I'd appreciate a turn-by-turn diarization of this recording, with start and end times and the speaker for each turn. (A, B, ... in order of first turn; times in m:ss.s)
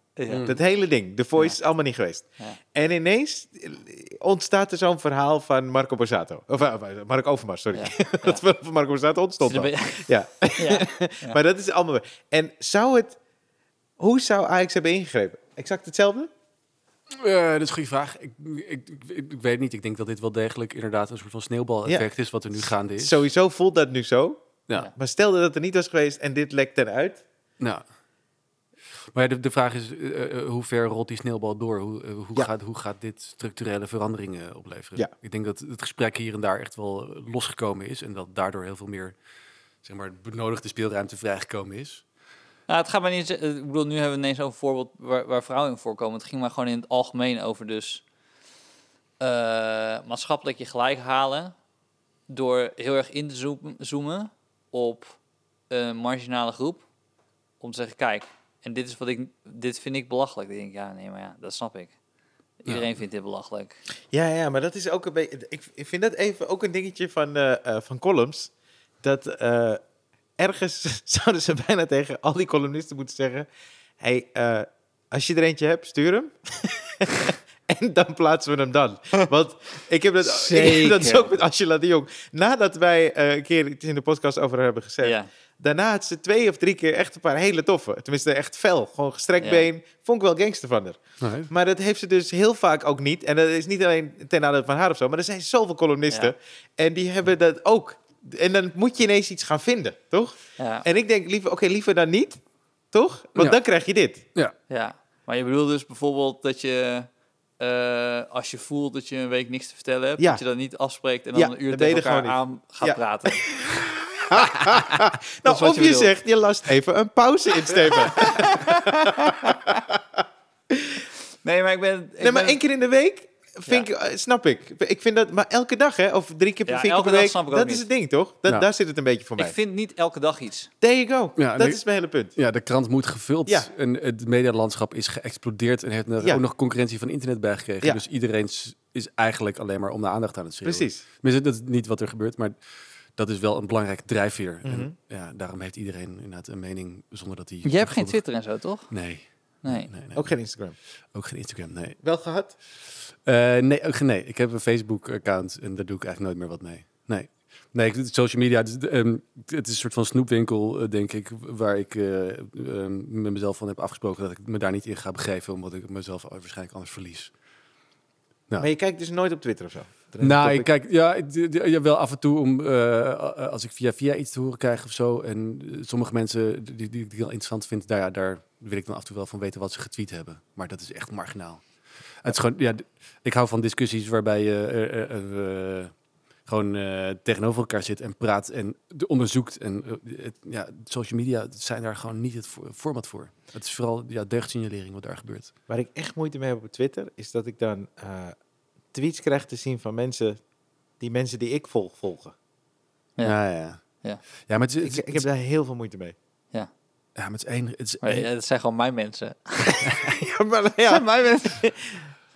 0:00.2-0:00.5 A
0:00.3-0:00.6 B
0:00.4-0:13.2 C
0:07.7-0:08.4 A
0:09.4-0:11.4 A
0:14.0-0:16.3 C
0:17.1-0:23.2 B
0:21.9-0:27.2 C
0:29.1-0:39.1 B
0:39.8-0:42.0 B
0:42.7-0:48.0 A
0:49.2-0:51.5 A
0:52.3-0:55.2 A
0:55.7-0:56.8 A
0:57.6-1:02.0 A
1:02.6-1:03.8 A
1:02.7-1:02.9 B
1:04.1-1:09.8 C
1:10.4-1:13.5 C
1:14.0-1:42.4 C
1:20.2-1:21.4 A
1:25.0-1:25.3 A
1:29.4-1:29.7 A
1:31.2-1:31.5 B
1:40.6-1:40.9 A
1:42.9-1:44.2 C
1:44.7-1:47.1 A
1:47.6-1:53.4 A
1:51.3-2:00.2 C
1:55.4-1:56.1 A
1:57.9-1:59.8 A
2:00.7-2:01.0 C
2:01.4-2:02.6 A
2:02.2-2:09.6 C
2:06.7-2:07.9 A
2:09.4-2:10.7 A
2:10.8-2:12.3 C
2:11.4-2:11.8 B
2:12.4-2:22.6 B
2:20.6-2:21.0 C
2:23.2-2:28.2 B
2:24.6-2:24.9 C
2:27.6-2:28.9 A
2:28.9-2:30.4 B
2:29.6-2:29.9 A
2:30.2-2:30.8 C
2:31.1-2:32.0 B
2:32.0-2:32.5 C
2:33.1-2:47.3 B
2:48.6-2:50.7 C
2:50.2-3:01.6 B
3:02.2-3:05.9 B
3:06.5-3:15.5 B
3:15.7-3:18.4 C
3:18.9-3:20.4 C
3:21.0-3:22.3 C
3:23.2-3:23.8 B
3:24.5-3:25.3 B
3:24.8-3:26.2 C
3:27.2-3:28.3 B
3:28.0-3:30.0 A
3:29.9-3:32.1 C
3:30.9-3:31.6 A